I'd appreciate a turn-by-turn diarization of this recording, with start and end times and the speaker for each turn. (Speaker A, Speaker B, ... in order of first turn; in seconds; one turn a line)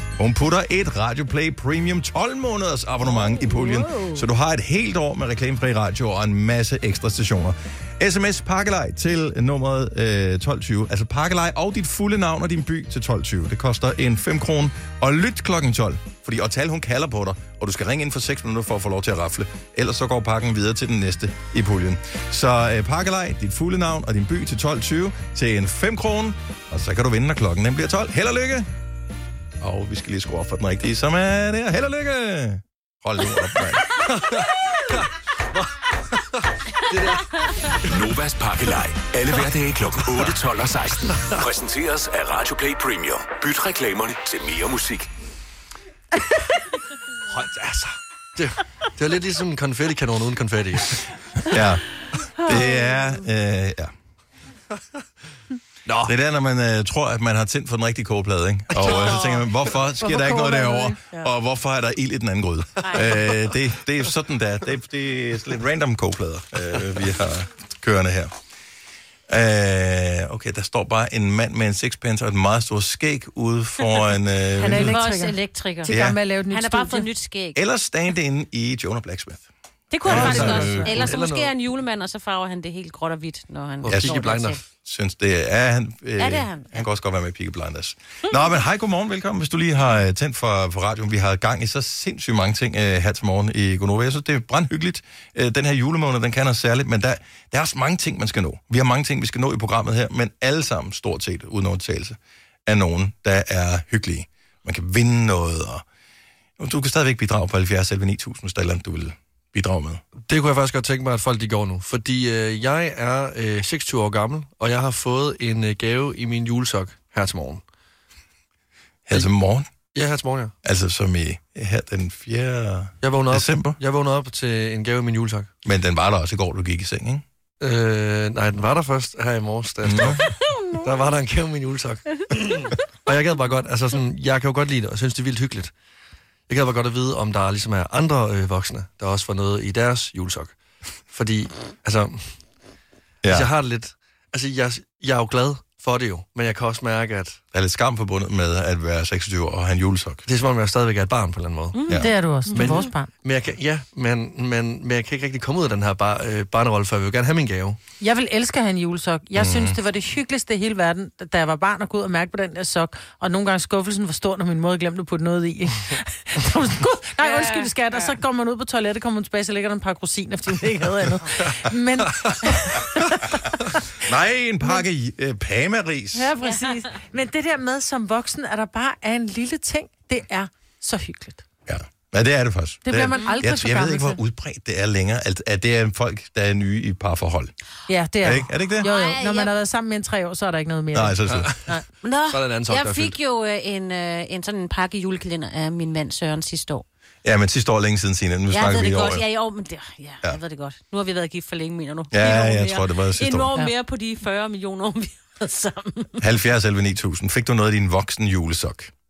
Speaker A: 0.2-28.7
Speaker B: 3.4-4.2
Speaker A: 29.6-33.9
Speaker C: 34.0-37.4
Speaker D: 37.9-45.1
Speaker C: 41.2-41.4
Speaker C: 47.3-51.1
Speaker A: 51.5-51.8
Speaker A: 52.4-53.9
Speaker B: 52.5-52.9
Speaker C: 55.9-56.1
Speaker A: 56.0-68.3
Speaker C: 58.7-59.5
Speaker B: 60.0-61.3
Speaker E: 62.9-63.2
Speaker A: 69.3-75.0
Speaker B: 74.6-77.1
Speaker E: 74.6-76.0
Speaker A: 75.9-76.2
Speaker E: 76.5-77.6
Speaker A: 77.5-79.5
Speaker E: 79.9-84.6
Speaker A: 80.0-81.2
Speaker B: 80.1-80.9
Speaker C: 80.1-81.5
Speaker C: 83.8-84.6
Speaker A: 83.9-84.2
Speaker A: 84.8-105.8
Speaker E: 86.2-86.8
Speaker A: 106.6-110.0
Speaker C: 110.2-117.6
Speaker A: 119.1-119.7
Speaker C: 119.9-120.5
Speaker A: 120.6-123.8
Speaker C: 123.0-125.5
Speaker A: 125.6-127.2
Speaker C: 127.6-130.2
Speaker A: 129.8-130.2
Speaker C: 130.8-135.7
Speaker C: 136.5-140.5
Speaker C: 141.1-142.4
Speaker A: 143.2-143.5
Speaker C: 143.3-147.4
Speaker A: 147.5-150.2
Speaker C: 150.3-151.8
Speaker E: 151.8-152.9
Speaker B: 151.9-153.1
Speaker C: 152.5-157.8
Speaker B: 158.0-173.8
Speaker A: 159.4-159.8
Speaker E: 167.2-168.1
Speaker C: 172.2-172.5
Speaker A: 174.0-176.3
Speaker B: 176.1-181.4
Speaker E: 176.4-176.7
Speaker A: 181.7-187.5
Speaker B: 182.8-184.2
Speaker B: 187.9-191.8
Speaker A: 188.2-188.9
Speaker E: 188.8-189.5
Speaker A: 190.9-191.5
Speaker C: 191.3-193.2
Speaker E: 192.0-196.8
Speaker A: 197.2-199.2
Speaker E: 198.5-206.2
Speaker A: 202.1-203.5
Speaker A: 206.2-208.9